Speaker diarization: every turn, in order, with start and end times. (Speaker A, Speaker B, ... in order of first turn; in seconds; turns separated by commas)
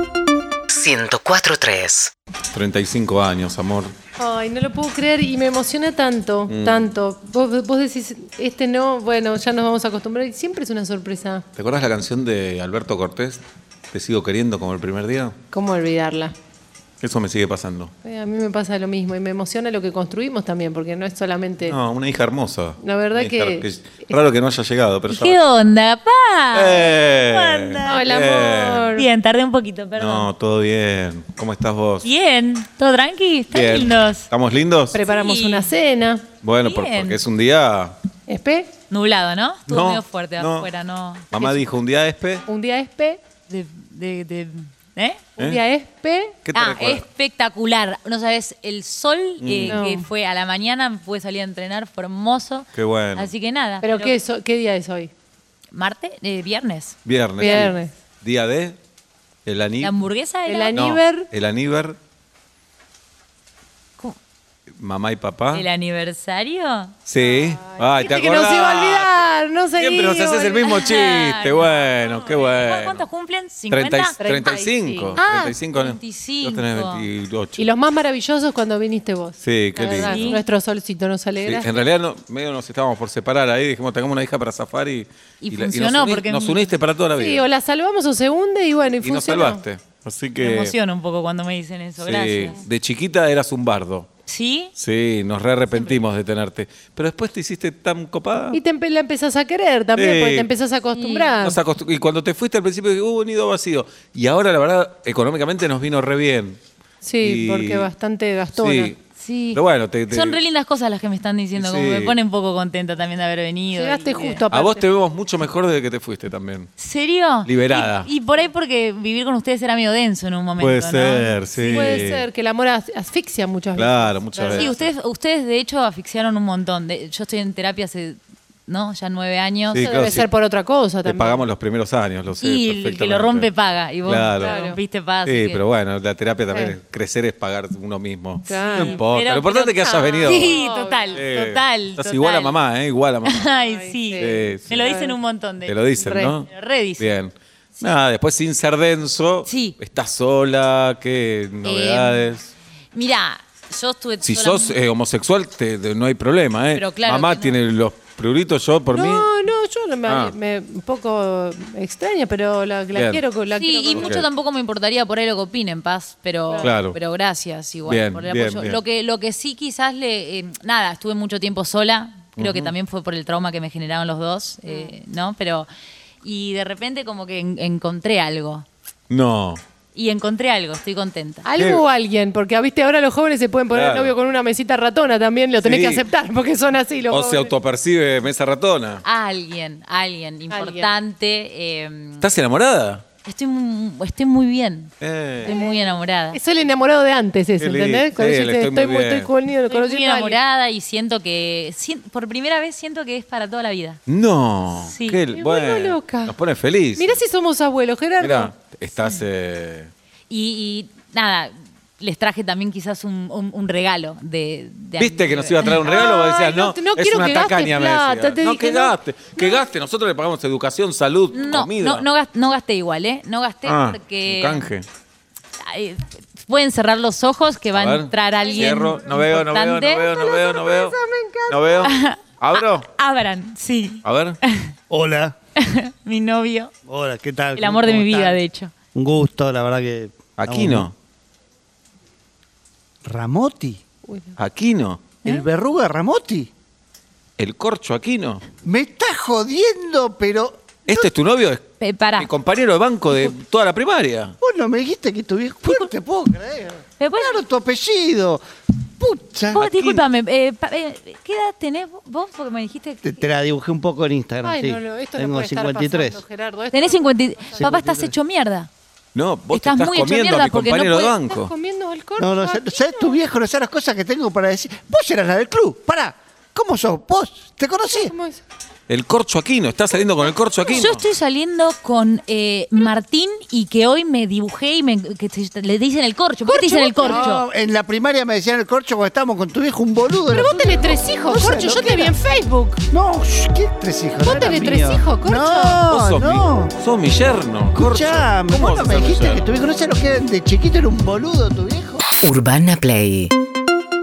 Speaker A: 0.7-2.1, Speaker B: 2.5-3.9, Speaker C: 4.2-11.4, Speaker B: 6.5-6.9, Speaker B: 11.6-13.4, Speaker B: 13.9-15.3, Speaker C: 15.5-16.3, Speaker B: 17.0-17.9, Speaker C: 18.0-21.8, Speaker B: 21.6-25.4, Speaker C: 22.8-24.2, Speaker D: 25.1-28.1, Speaker B: 26.5-28.9, Speaker C: 27.8-29.1, Speaker D: 28.9-30.3, Speaker B: 29.9-32.1, Speaker D: 32.0-34.3, Speaker B: 33.5-35.0, Speaker C: 34.9-36.3, Speaker D: 35.0-35.7, Speaker B: 36.4-38.0, Speaker D: 36.6-37.2, Speaker C: 38.3-38.7, Speaker D: 38.9-41.6, Speaker B: 39.7-40.7, Speaker B: 41.3-42.4, Speaker C: 42.5-43.2, Speaker D: 43.5-45.3, Speaker C: 45.4-46.4, Speaker B: 46.4-47.0, Speaker D: 46.5-54.2, Speaker B: 49.4-49.8, Speaker C: 49.6-50.1, Speaker B: 52.7-53.3, Speaker C: 53.8-55.1, Speaker D: 55.7-57.7, Speaker B: 57.0-58.8, Speaker C: 57.4-57.9, Speaker B: 59.5-59.9, Speaker D: 59.8-60.8, Speaker C: 60.5-61.3, Speaker B: 60.7-62.0, Speaker B: 64.8-65.7, Speaker D: 65.5-66.9, Speaker B: 67.0-73.0, Speaker C: 67.2-71.0, Speaker D: 70.6-74.6, Speaker B: 73.7-77.7, Speaker C: 74.2-75.5, Speaker D: 75.2-77.0, Speaker C: 77.6-81.8, Speaker B: 79.4-80.2, Speaker D: 79.9-80.4, Speaker B: 81.4-87.4, Speaker D: 85.4-86.7, Speaker C: 87.1-89.6, Speaker B: 89.0-90.7, Speaker D: 90.4-92.6, Speaker B: 92.0-94.1, Speaker D: 94.3-94.7, Speaker B: 94.8-98.6, Speaker D: 95.7-96.0, Speaker C: 98.5-101.6, Speaker B: 99.9-100.5, Speaker D: 100.9-101.3, Speaker B: 101.4-106.6, Speaker C: 107.0-108.9, Speaker B: 107.2-107.9, Speaker B: 108.6-109.0, Speaker D: 109.2-114.5, Speaker B: 109.5-110.4, Speaker B: 111.5-112.2, Speaker C: 113.7-114.8, Speaker B: 114.5-116.7, Speaker D: 116.8-122.1, Speaker B: 117.4-118.1, Speaker B: 120.6-122.2, Speaker C: 121.6-124.7, Speaker B: 123.7-124.9, Speaker D: 124.5-130.1, Speaker B: 129.7-130.3, Speaker C: 129.7-131.5, Speaker B: 131.0-133.5, Speaker D: 132.4-135.6, Speaker B: 134.0-134.6, Speaker C: 134.4-134.8, Speaker B: 135.2-140.6, Speaker C: 136.5-136.8, Speaker C: 138.4-139.0, Speaker D: 138.5-142.6, Speaker C: 139.8-141.3, Speaker B: 141.1-143.5, Speaker D: 143.2-147.1, Speaker C: 143.5-145.2, Speaker B: 144.2-144.9, Speaker B: 145.6-146.5, Speaker B: 147.0-152.5, Speaker D: 149.4-149.8, Speaker D: 151.6-152.3, Speaker D: 152.9-154.8, Speaker B: 154.2-159.3, Speaker D: 156.7-157.6, Speaker C: 158.9-164.2, Speaker B: 160.1-160.3, Speaker B: 162.9-163.2, Speaker D: 163.5-175.7, Speaker B: 163.9-164.3, Speaker C: 166.5-166.7, Speaker B: 166.6-167.0, Speaker B: 167.8-168.8, Speaker B: 172.4-172.7, Speaker C: 174.7-174.9, Speaker D: 176.2-178.7, Speaker B: 179.1-179.6, Speaker D: 179.9-181.5, Speaker C: 181.4-187.5, Speaker B: 181.6-181.8, Speaker B: 183.7-184.1, Speaker B: 185.6-186.0, Speaker B: 187.1-189.0, Speaker D: 189.0-192.3, Speaker C: 190.5-190.9, Speaker B: 192.2-193.1, Speaker D: 193.2-194.9, Speaker B: 195.0-195.6, Speaker D: 195.4-196.4, Speaker C: 195.4-200.4, Speaker B: 197.6-199.3, Speaker D: 199.7-204.0, Speaker B: 204.1-207.2, Speaker D: 204.7-205.2, Speaker C: 205.3-206.4, Speaker C: 206.9-208.6, Speaker B: 208.2-209.9, Speaker D: 210.3-216.0, Speaker B: 215.0-222.1, Speaker C: 215.6-219.7, Speaker D: 221.3-224.7, Speaker B: 223.6-224.8, Speaker D: 225.6-230.2, Speaker B: 227.7-230.9, Speaker C: 228.4-229.1, Speaker C: 230.1-232.0, Speaker B: 231.5-232.9, Speaker D: 231.8-234.7, Speaker B: 234.0-234.4, Speaker E: 234.9-235.3, Speaker D: 235.6-236.7, Speaker E: 236.8-238.4, Speaker D: 237.6-238.7, Speaker E: 238.9-240.9, Speaker B: 240.4-240.9, Speaker E: 243.0-243.8, Speaker C: 244.1-244.3, Speaker B: 244.4-245.2, Speaker E: 245.2-246.5, Speaker B: 247.4-248.4, Speaker E: 248.6-251.1, Speaker B: 250.9-254.3, Speaker D: 251.8-252.3, Speaker E: 254.4-258.4, Speaker D: 257.0-257.4, Speaker E: 259.0-259.6, Speaker D: 259.5-263.2, Speaker B: 259.5-260.1, Speaker E: 263.0-266.2, Speaker C: 264.4-267.7, Speaker D: 266.7-268.7, Speaker E: 267.6-268.1, Speaker B: 269.1-271.5, Speaker D: 269.5-271.2, Speaker C: 271.2-273.2, Speaker E: 272.2-278.1, Speaker C: 277.9-278.4, Speaker B: 278.9-281.0, Speaker D: 280.7-287.4, Speaker E: 286.4-292.1, Speaker C: 287.0-287.3, Speaker C: 290.3-292.8, Speaker E: 292.9-296.7, Speaker C: 294.2-295.8, Speaker B: 295.8-299.5, Speaker E: 297.7-302.0, Speaker A: 302.2-303.3